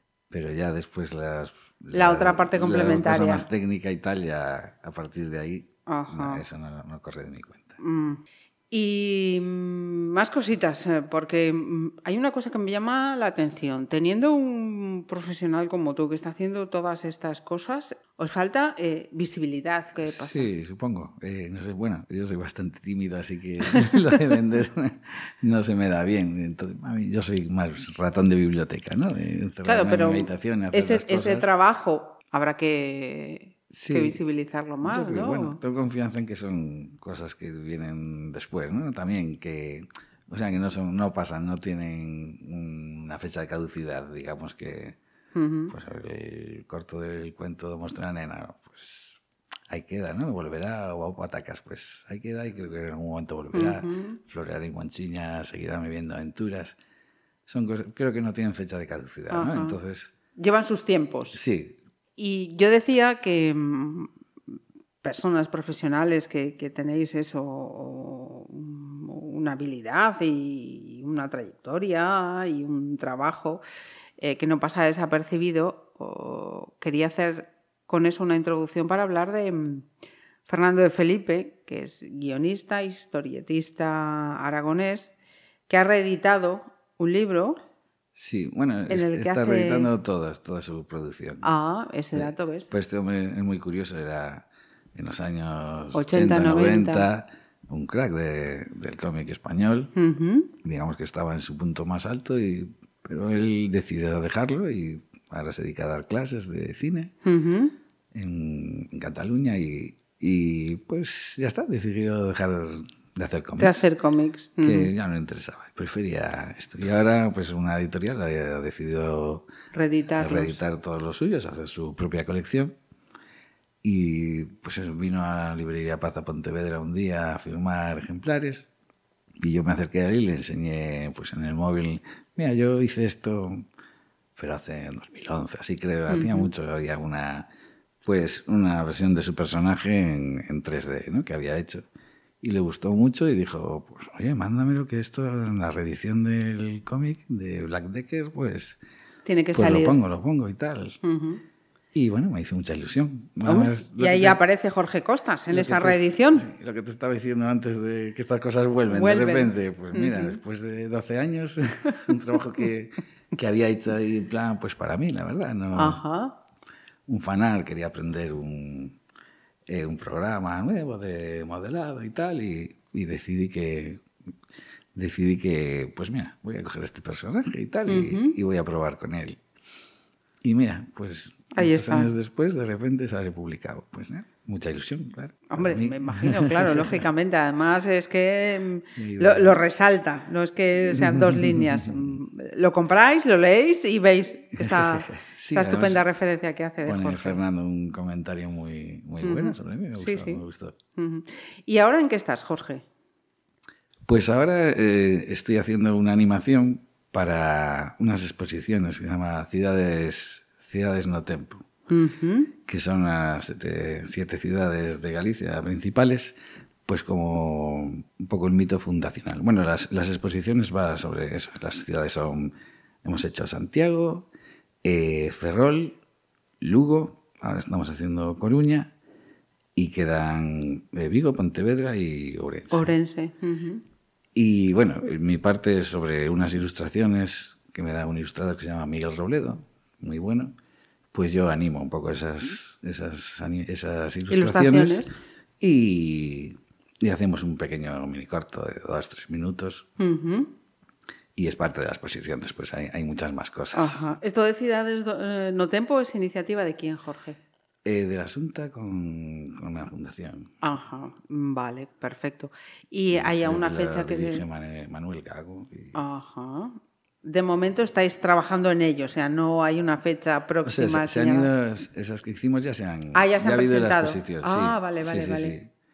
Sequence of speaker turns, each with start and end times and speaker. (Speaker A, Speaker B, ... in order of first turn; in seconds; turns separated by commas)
Speaker A: 0.3-7.8, Speaker B: 1.9-3.5, Speaker B: 5.9-6.4, Speaker B: 7.8-20.5, Speaker A: 20.0-31.5, Speaker B: 29.6-35.6, Speaker A: 33.7-34.2, Speaker A: 34.8-45.0, Speaker B: 45.3-45.7, Speaker A: 45.7-49.2, Speaker A: 49.7-56.8, Speaker B: 53.5-54.2, Speaker A: 57.5-60.1, Speaker B: 59.3-59.8, Speaker B: 60.4-61.4, Speaker A: 61.3-61.8, Speaker B: 62.2-64.1, Speaker B: 65.0-73.6, Speaker B: 74.2-79.9, Speaker B: 80.5-85.1, Speaker B: 85.7-87.6, Speaker A: 88.2-91.5, Speaker B: 88.9-89.9, Speaker B: 91.4-92.7, Speaker A: 92.1-99.9, Speaker B: 95.9-97.1, Speaker B: 99.9-100.5, Speaker A: 100.6-107.1, Speaker B: 107.2-107.7, Speaker A: 108.1-113.8, Speaker B: 113.6-114.9, Speaker A: 114.6-119.5, Speaker B: 119.7-120.6, Speaker A: 120.2-122.8, Speaker A: 123.8-128.7, Speaker A: 129.4-133.7, Speaker A: 134.4-137.5, Speaker B: 136.1-136.5, Speaker A: 138.0-141.8, Speaker A: 142.4-148.8, Speaker B: 149.2-150.0, Speaker A: 149.5-151.0, Speaker B: 151.0-151.4, Speaker A: 151.9-154.4, Speaker B: 153.4-156.4, Speaker A: 155.5-166.0, Speaker B: 158.9-160.4, Speaker B: 165.7-166.4, Speaker A: 167.1-169.0, Speaker A: 169.7-174.0, Speaker A: 174.9-179.4, Speaker B: 177.9-178.4, Speaker A: 180.4-187.1, Speaker B: 181.5-182.1, Speaker B: 185.5-197.4, Speaker A: 189.0-189.6, Speaker A: 190.8-192.2, Speaker A: 194.6-196.0, Speaker A: 196.8-200.8, Speaker B: 199.2-200.4, Speaker B: 200.9-202.9, Speaker A: 204.1-211.7, Speaker B: 211.9-212.5, Speaker A: 212.7-216.4, Speaker A: 216.9-222.5, Speaker A: 223.0-224.3, Speaker A: 224.8-226.0, Speaker A: 226.6-228.9, Speaker A: 229.8-232.9, Speaker B: 232.7-233.8, Speaker A: 234.3-240.5, Speaker A: 241.1-245.1, Speaker B: 244.3-245.1, Speaker A: 245.6-249.9, Speaker B: 250.0-250.5, Speaker A: 251.4-254.1, Speaker B: 253.7-257.4, Speaker A: 257.9-260.6, Speaker B: 260.6-264.4, Speaker A: 263.1-266.0, Speaker B: 265.9-271.5, Speaker A: 270.6-275.7, Speaker B: 273.1-275.6